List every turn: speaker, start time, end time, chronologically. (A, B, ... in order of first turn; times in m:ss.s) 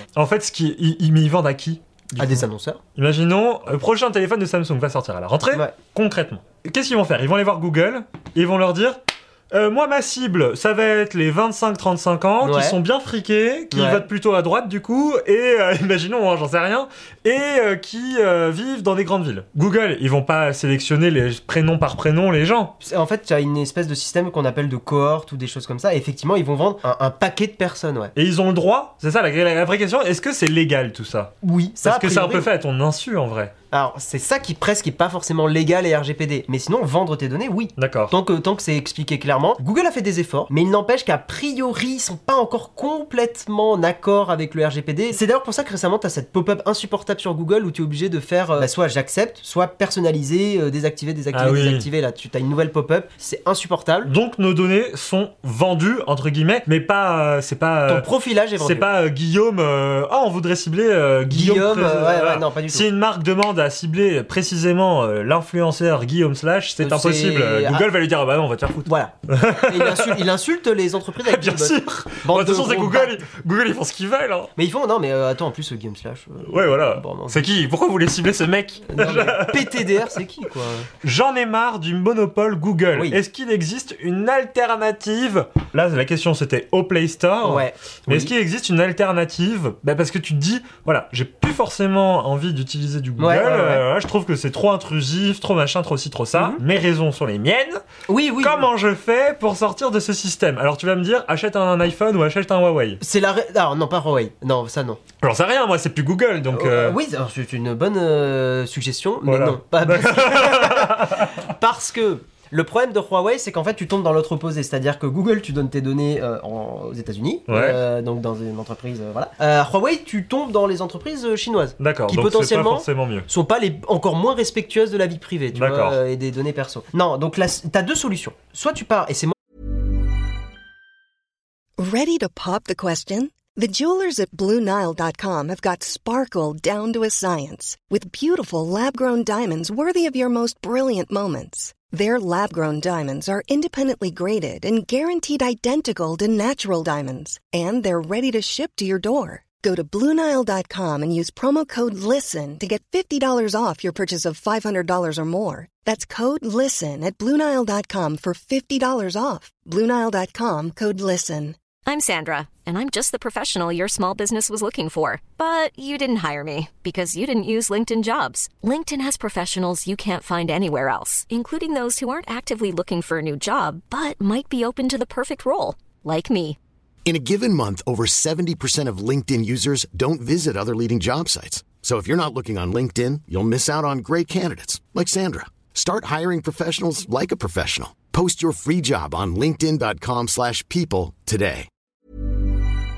0:00.2-0:09.0 A
0:02.2-0:02.8 B
0:09.5-0:22.8 A
0:12.4-0:12.8 B
0:13.7-0:14.0 B
0:22.8-0:28.1 B
0:28.1-0:33.5 A
0:31.4-0:32.5 B
0:33.7-0:54.1 B
0:37.8-0:38.1 A
0:51.3-0:51.9 A
0:54.0-1:10.3 A
0:57.9-0:58.9 B
1:01.3-1:02.9 B
1:06.8-1:07.9 B
1:08.8-1:13.2 B
1:11.2-1:14.5 A
1:14.6-1:17.4 B
1:16.4-1:20.2 A
1:18.9-1:20.9 B
1:21.0-1:37.8 A
1:22.9-1:23.2 B
1:27.4-1:28.3 B
1:33.2-1:33.8 B
1:36.3-1:36.6 B
1:38.1-1:38.6 B
1:38.4-1:43.0 A
1:43.0-1:45.0 B
1:45.2-1:47.0 A
1:46.5-2:09.3 B
1:49.2-1:51.3 A
1:57.5-1:57.8 A
2:01.8-2:03.3 A
2:05.5-2:06.0 A
2:11.8-2:41.6 C
2:41.8-2:56.6 D
2:57.0-3:11.7 E